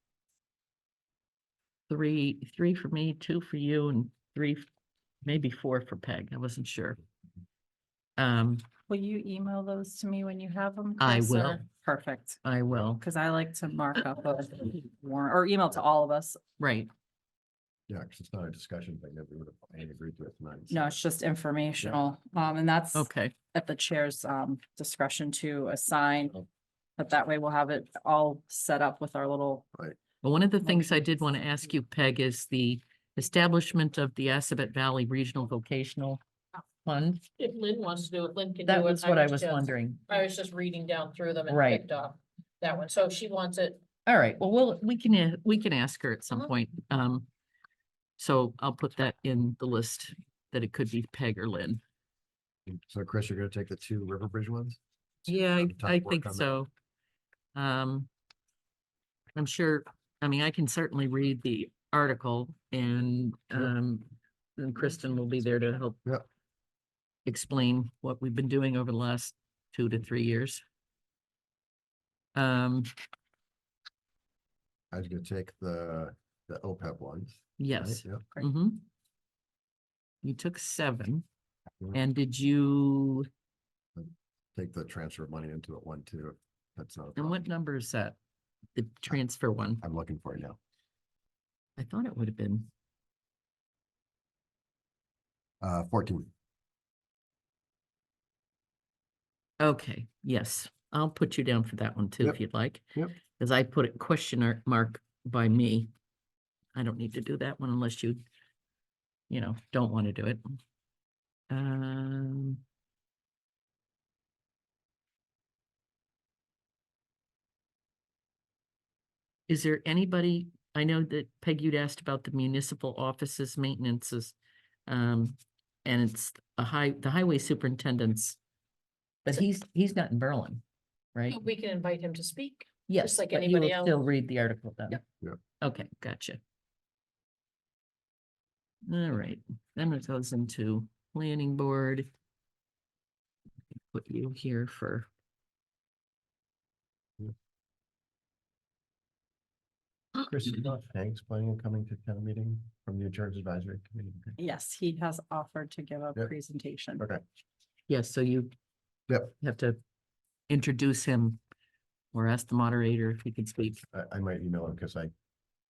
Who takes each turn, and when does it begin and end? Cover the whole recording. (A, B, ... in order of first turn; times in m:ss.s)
0:01.9-0:04.7 A
0:05.2-0:07.0 A
0:08.2-0:08.6 A
0:08.9-0:16.4 B
0:11.0-0:11.6 A
0:12.4-0:13.0 A
0:16.6-0:16.9 A
0:17.9-0:20.9 C
0:20.7-0:26.4 B
0:23.0-0:23.3 A
0:27.0-0:29.6 B
0:30.2-0:36.2 A
0:36.8-0:37.2 A
0:37.4-0:43.8 D
0:38.7-0:40.0 A
0:41.5-0:41.9 A
0:44.1-0:47.3 A
0:48.2-0:51.8 A
0:52.7-0:54.8 C
0:55.3-0:56.7 A
0:55.6-0:56.5 C
0:57.6-0:58.1 A
0:59.4-1:06.0 A
1:07.3-1:10.6 A
1:12.4-1:12.9 A
1:14.9-1:18.2 C
1:17.6-1:18.8 A
1:20.2-1:21.2 A
1:21.9-1:23.3 A
1:24.0-1:27.4 C
1:27.2-1:28.2 A
1:28.8-1:29.8 A
1:29.8-1:30.6 C
1:31.8-1:32.7 A
1:35.6-1:36.3 C
1:39.6-1:42.9 A
1:43.4-1:45.9 A
1:46.8-1:48.2 A
1:49.3-1:50.4 A
1:51.5-1:52.6 A
1:59.5-2:04.4 A
2:04.9-2:08.4 A
2:09.2-2:10.6 A
2:11.3-2:14.0 D
2:12.9-2:15.0 A
2:15.6-2:16.4 A
2:18.9-2:22.1 A
2:23.9-2:25.1 A
2:30.2-2:34.3 C
2:34.4-2:37.0 B
2:37.9-2:38.5 A
2:39.1-2:39.3 C
2:39.4-2:39.8 A
2:40.5-2:41.4 A
2:42.1-2:43.8 A
2:43.9-2:45.1 C